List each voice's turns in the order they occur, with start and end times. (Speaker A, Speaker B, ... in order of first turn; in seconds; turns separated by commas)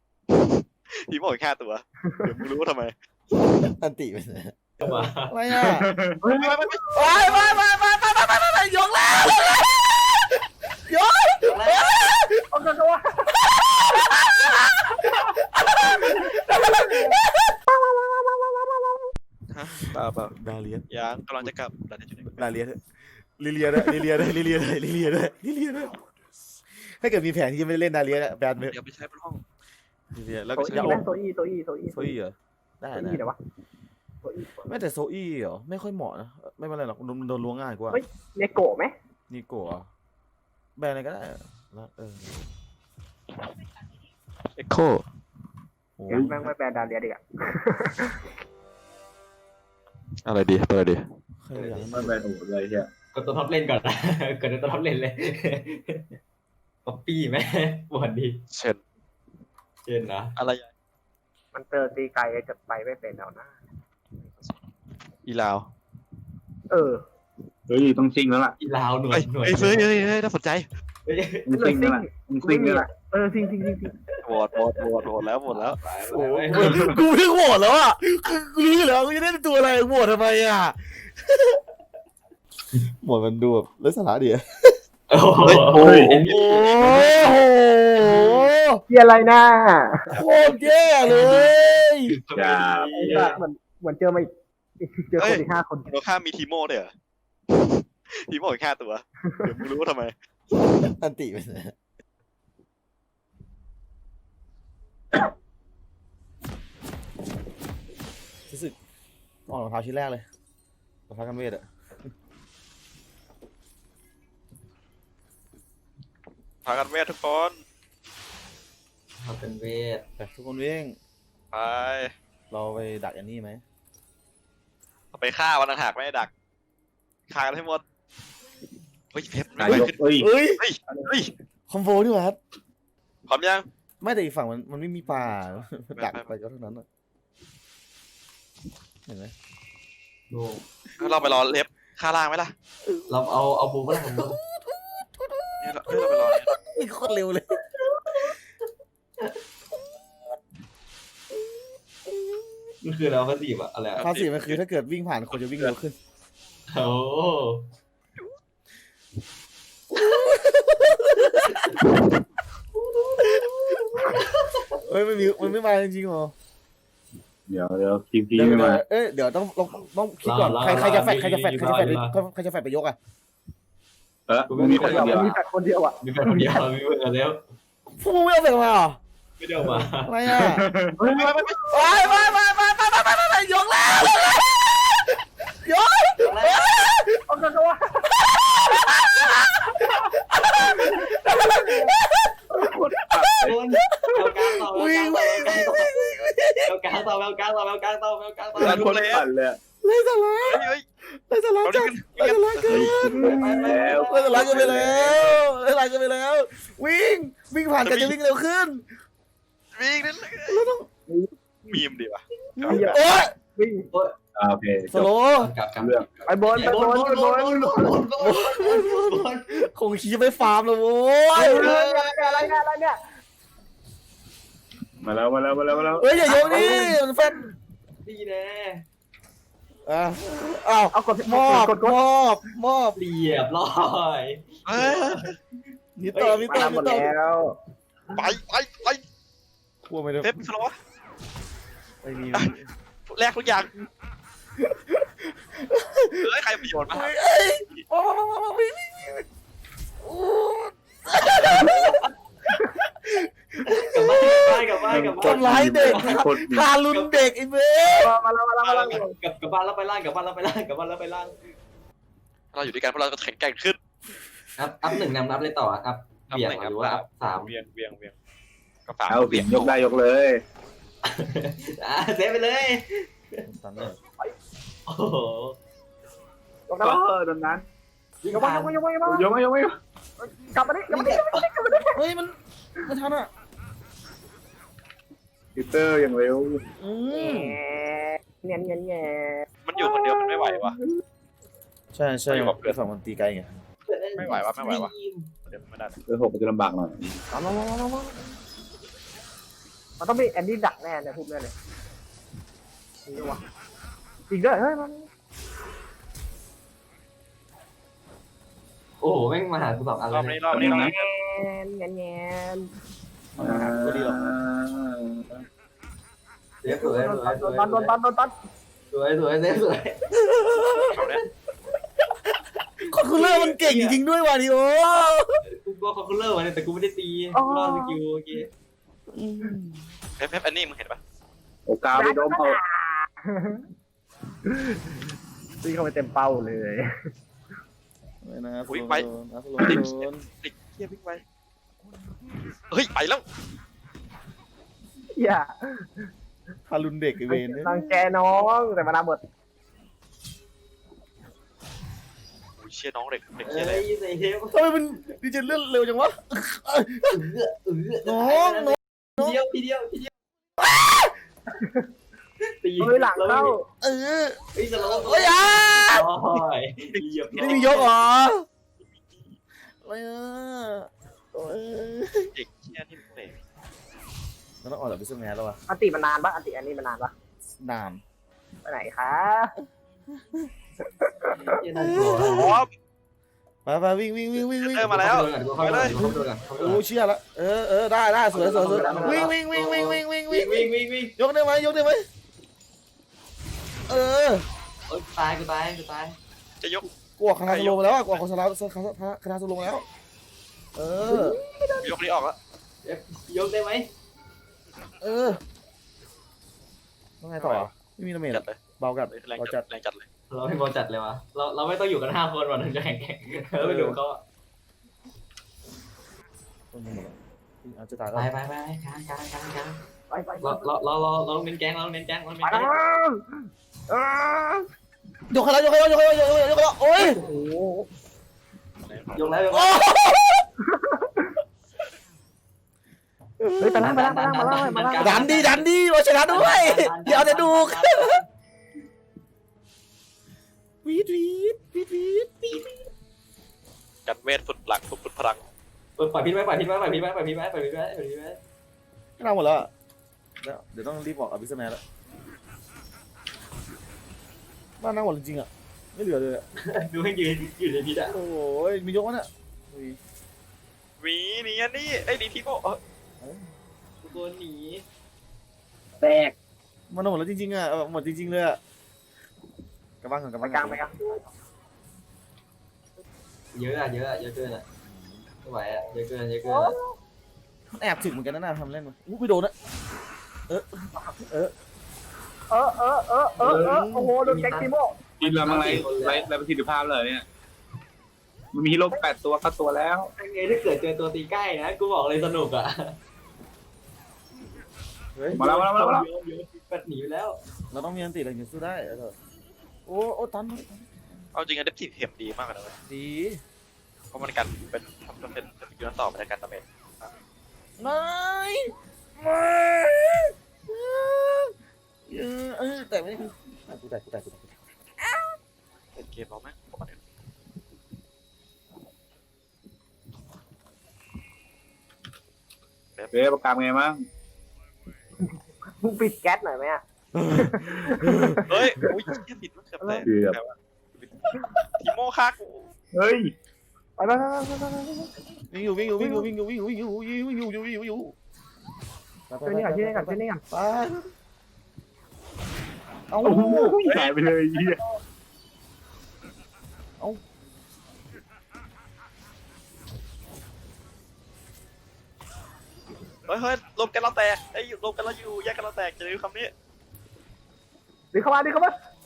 Speaker A: 0.3-2.9, Speaker B: 3.5-5.9, Speaker C: 4.8-5.4, Speaker D: 5.5-6.6, Speaker A: 6.2-6.9, Speaker B: 6.9-12.5, Speaker C: 11.4-11.9, Speaker E: 12.5-13.4, Speaker B: 13.6-17.6, Speaker E: 15.8-19.1, Speaker A: 19.5-20.4, Speaker B: 20.3-20.9, Speaker A: 20.9-22.5, Speaker B: 22.3-22.8, Speaker B: 23.4-26.0, Speaker B: 26.9-28.8, Speaker A: 28.7-29.4, Speaker B: 30.1-31.1, Speaker A: 30.6-30.9, Speaker E: 30.6-32.1, Speaker B: 31.9-33.2, Speaker E: 32.9-33.4, Speaker E: 34.2-34.7, Speaker B: 34.7-38.0, Speaker E: 37.9-38.9, Speaker B: 39.3-39.9, Speaker B: 40.8-42.5, Speaker A: 44.6-45.0, Speaker B: 46.0-46.5, Speaker E: 46.1-48.2, Speaker A: 50.2-51.0, Speaker B: 51.4-52.2, Speaker C: 51.5-52.0, Speaker D: 51.9-52.9, Speaker C: 53.1-56.1, Speaker C: 56.9-58.4, Speaker A: 58.5-58.8, Speaker C: 59.9-60.4, Speaker A: 60.4-60.7, Speaker E: 61.5-63.6, Speaker A: 65.2-65.7, Speaker E: 66.7-67.0, Speaker D: 67.7-68.6, Speaker C: 68.6-70.1, Speaker A: 69.1-70.7, Speaker C: 71.1-71.5, Speaker D: 71.5-72.9, Speaker E: 71.5-74.0, Speaker C: 74.1-76.9, Speaker A: 74.2-75.8, Speaker B: 76.1-81.6, Speaker D: 76.5-77.0, Speaker B: 83.0-84.8, Speaker C: 85.1-86.7, Speaker A: 85.4-87.3, Speaker D: 85.5-86.2, Speaker B: 86.2-88.8, Speaker E: 88.9-90.0, Speaker B: 90.1-92.1, Speaker C: 91.0-93.4, Speaker D: 92.3-93.3, Speaker E: 92.9-94.3, Speaker E: 94.8-95.9, Speaker A: 95.2-96.9, Speaker A: 97.5-100.1, Speaker B: 100.6-101.8, Speaker B: 108.5-108.8, Speaker B: 109.5-110.2, Speaker B: 111.1-111.7, Speaker A: 116.7-117.6, Speaker C: 119.2-120.0, Speaker B: 120.2-121.0, Speaker A: 121.5-122.1, Speaker B: 122.5-123.6, Speaker A: 125.1-126.3, Speaker A: 127.3-127.8, Speaker A: 129.1-131.3, Speaker D: 129.6-130.3, Speaker B: 129.7-130.6, Speaker B: 131.7-132.4, Speaker A: 133.3-133.7, Speaker B: 134.0-136.9, Speaker A: 135.9-136.3, Speaker B: 139.1-139.3, Speaker C: 140.3-140.7, Speaker A: 141.0-142.5, Speaker B: 141.0-141.4, Speaker B: 142.8-143.2, Speaker C: 143.1-144.4, Speaker B: 143.9-147.6, Speaker A: 145.6-146.5, Speaker C: 147.8-148.3, Speaker B: 149.7-150.3, Speaker B: 152.1-152.7, Speaker C: 152.8-154.1, Speaker A: 154.0-154.6, Speaker B: 154.0-155.9, Speaker A: 155.3-155.8, Speaker C: 156.7-157.7, Speaker B: 159.9-161.8, Speaker C: 162.7-164.8, Speaker B: 163.2-164.0, Speaker B: 164.9-166.3, Speaker D: 167.5-168.8, Speaker B: 168.3-173.0, Speaker C: 170.2-172.2, Speaker D: 174.3-175.3, Speaker C: 174.5-175.4, Speaker E: 174.7-176.0, Speaker C: 176.0-177.4, Speaker D: 176.2-176.5, Speaker B: 177.9-179.0, Speaker C: 179.4-180.2, Speaker B: 179.6-180.7, Speaker D: 180.3-181.5, Speaker A: 181.0-182.3, Speaker B: 181.7-187.2, Speaker C: 186.2-186.9, Speaker E: 187.3-188.1, Speaker B: 188.1-196.8, Speaker E: 190.6-191.8, Speaker D: 192.5-194.3, Speaker C: 193.4-196.0, Speaker C: 196.7-199.2, Speaker D: 198.6-199.6, Speaker A: 198.6-199.3, Speaker B: 199.8-208.8, Speaker A: 200.5-200.8, Speaker A: 201.6-202.9, Speaker D: 202.7-205.2, Speaker C: 203.0-205.4, Speaker A: 207.8-208.2, Speaker A: 209.8-210.6, Speaker B: 210.5-210.9, Speaker A: 211.7-213.1, Speaker B: 212.6-213.3, Speaker E: 212.7-213.9, Speaker D: 214.4-215.1, Speaker B: 214.9-215.5, Speaker C: 215.4-219.7, Speaker D: 215.8-216.1, Speaker E: 216.3-217.9, Speaker B: 218.2-221.7, Speaker E: 221.3-223.0, Speaker D: 225.0-226.3, Speaker B: 226.0-227.4, Speaker C: 226.2-227.0, Speaker E: 226.5-226.9, Speaker C: 228.0-228.8, Speaker B: 229.9-233.0, Speaker E: 230.9-232.0, Speaker C: 233.0-235.4, Speaker A: 234.7-235.3, Speaker B: 236.0-237.1, Speaker E: 236.1-237.6, Speaker A: 238.1-239.0, Speaker B: 239.9-240.3, Speaker A: 240.2-240.8, Speaker B: 242.0-242.7, Speaker A: 243.1-243.7, Speaker B: 244.6-246.3, Speaker A: 246.2-247.1, Speaker B: 246.9-249.3, Speaker B: 250.0-258.1, Speaker C: 251.6-252.1, Speaker C: 253.6-256.2, Speaker D: 254.8-256.7, Speaker C: 256.9-257.3, Speaker E: 257.9-259.1, Speaker A: 258.6-259.0, Speaker C: 259.0-261.4, Speaker A: 262.5-263.8, Speaker C: 264.6-267.5, Speaker A: 266.3-268.1, Speaker A: 268.9-269.8, Speaker D: 269.1-270.4, Speaker C: 271.0-273.5, Speaker B: 273.5-274.0, Speaker C: 274.9-275.6, Speaker E: 276.7-277.1, Speaker D: 276.8-277.6, Speaker C: 278.2-278.8, Speaker E: 278.3-279.4, Speaker D: 279.1-279.8, Speaker E: 280.2-282.0, Speaker C: 280.9-281.5, Speaker B: 281.9-283.3, Speaker D: 285.6-286.6, Speaker B: 286.8-287.6, Speaker E: 287.1-290.8, Speaker A: 289.7-290.8, Speaker B: 291.9-293.5, Speaker A: 292.3-292.8, Speaker C: 293.9-295.3, Speaker A: 294.2-294.9, Speaker A: 295.5-296.0, Speaker D: 296.1-297.2, Speaker E: 297.3-298.2, Speaker E: 300.0-301.5, Speaker E: 303.1-303.4, Speaker E: 304.3-305.1, Speaker C: 309.0-310.7, Speaker A: 310.1-311.1, Speaker D: 310.5-311.0, Speaker E: 310.8-312.7, Speaker B: 313.4-314.3, Speaker D: 313.4-315.4, Speaker C: 316.6-317.9, Speaker E: 316.7-318.3, Speaker C: 318.9-321.3, Speaker B: 320.3-320.9, Speaker A: 320.8-321.2, Speaker B: 322.8-325.4, Speaker C: 323.0-324.0, Speaker C: 325.5-328.5, Speaker E: 327.3-328.0, Speaker B: 329.1-329.9, Speaker A: 330.2-331.0, Speaker D: 331.7-332.6, Speaker E: 331.9-333.6, Speaker E: 334.5-334.8, Speaker E: 335.6-336.9, Speaker B: 338.2-340.2, Speaker A: 338.7-339.1, Speaker A: 339.6-341.2, Speaker A: 342.7-343.2, Speaker E: 345.2-346.1, Speaker B: 346.7-348.0, Speaker E: 347.3-349.2, Speaker A: 352.6-353.9, Speaker C: 353.5-354.6, Speaker B: 354.5-357.3, Speaker C: 357.1-360.1, Speaker B: 358.0-359.4, Speaker B: 360.6-361.1, Speaker C: 362.5-363.6, Speaker E: 362.8-363.7, Speaker B: 363.8-364.4, Speaker C: 364.6-367.9, Speaker B: 364.9-366.1, Speaker A: 367.3-367.7, Speaker B: 367.3-368.5, Speaker B: 369.8-372.3, Speaker A: 372.3-373.4, Speaker B: 374.6-375.6, Speaker E: 375.7-377.1, Speaker B: 377.6-378.0, Speaker E: 378.6-379.5, Speaker E: 381.0-381.4, Speaker C: 381.4-382.6, Speaker B: 381.7-382.6, Speaker A: 382.3-382.7, Speaker B: 383.7-385.0, Speaker A: 384.5-386.0, Speaker C: 384.8-386.8, Speaker B: 385.7-392.1, Speaker C: 388.3-391.1, Speaker E: 388.7-389.3, Speaker B: 393.9-394.4, Speaker C: 394.9-396.2, Speaker A: 396.6-396.9, Speaker B: 397.2-399.9, Speaker A: 397.5-398.2, Speaker B: 400.8-401.4, Speaker E: 401.1-401.9, Speaker A: 401.8-402.4, Speaker C: 402.8-403.9, Speaker B: 405.0-405.4, Speaker B: 407.2-409.6, Speaker A: 407.4-407.7, Speaker A: 408.3-408.6, Speaker A: 409.1-410.1, Speaker C: 410.3-414.2, Speaker B: 413.6-414.0, Speaker B: 416.7-418.3, Speaker C: 418.1-419.8, Speaker E: 420.1-420.7, Speaker C: 420.4-422.7, Speaker E: 422.4-424.6, Speaker B: 425.3-427.2, Speaker E: 427.0-427.9, Speaker A: 428.9-429.4, Speaker C: 429.1-429.8, Speaker B: 429.5-430.5, Speaker E: 430.6-431.3, Speaker B: 433.4-434.0, Speaker E: 433.6-435.5, Speaker C: 433.8-435.7, Speaker B: 435.0-438.2, Speaker C: 436.3-438.2, Speaker B: 440.8-442.9, Speaker A: 444.1-445.4, Speaker C: 446.0-448.4, Speaker B: 449.2-449.7, Speaker B: 450.4-451.8, Speaker B: 454.8-456.4, Speaker C: 456.6-458.1, Speaker B: 458.1-460.0, Speaker A: 461.0-462.8, Speaker B: 463.2-463.5, Speaker C: 464.0-464.8, Speaker D: 466.0-466.3, Speaker B: 466.9-468.6, Speaker B: 470.0-470.8, Speaker E: 470.4-471.2, Speaker C: 473.5-474.6, Speaker B: 474.9-475.2, Speaker C: 475.4-476.8, Speaker E: 476.4-477.0, Speaker B: 477.7-479.5, Speaker B: 480.5-481.5, Speaker E: 482.5-485.0, Speaker D: 483.4-483.9, Speaker B: 483.6-484.1, Speaker C: 484.2-484.7, Speaker D: 485.2-487.2, Speaker C: 485.2-486.3, Speaker D: 488.5-490.1, Speaker C: 490.2-493.0, Speaker B: 495.1-495.5, Speaker C: 495.3-497.4, Speaker D: 495.3-496.1, Speaker B: 497.7-499.1, Speaker B: 499.9-500.9, Speaker A: 501.3-502.8, Speaker B: 502.9-503.4, Speaker A: 504.1-507.1, Speaker B: 507.8-511.5, Speaker B: 512.1-515.4, Speaker A: 516.0-517.0, Speaker D: 523.1-524.1, Speaker E: 525.8-526.8, Speaker B: 527.1-528.4, Speaker E: 527.3-528.5, Speaker A: 528.5-531.1, Speaker E: 529.8-530.1, Speaker D: 530.1-530.4, Speaker A: 531.8-532.7, Speaker D: 532.9-533.3, Speaker E: 534.0-535.1, Speaker B: 535.5-538.1, Speaker E: 536.0-536.3, Speaker B: 539.3-541.1, Speaker E: 539.5-540.4, Speaker B: 543.1-543.8, Speaker D: 543.2-544.8, Speaker E: 543.4-543.8, Speaker A: 543.9-544.1, Speaker E: 544.5-545.0, Speaker A: 553.3-556.5, Speaker E: 558.1-558.8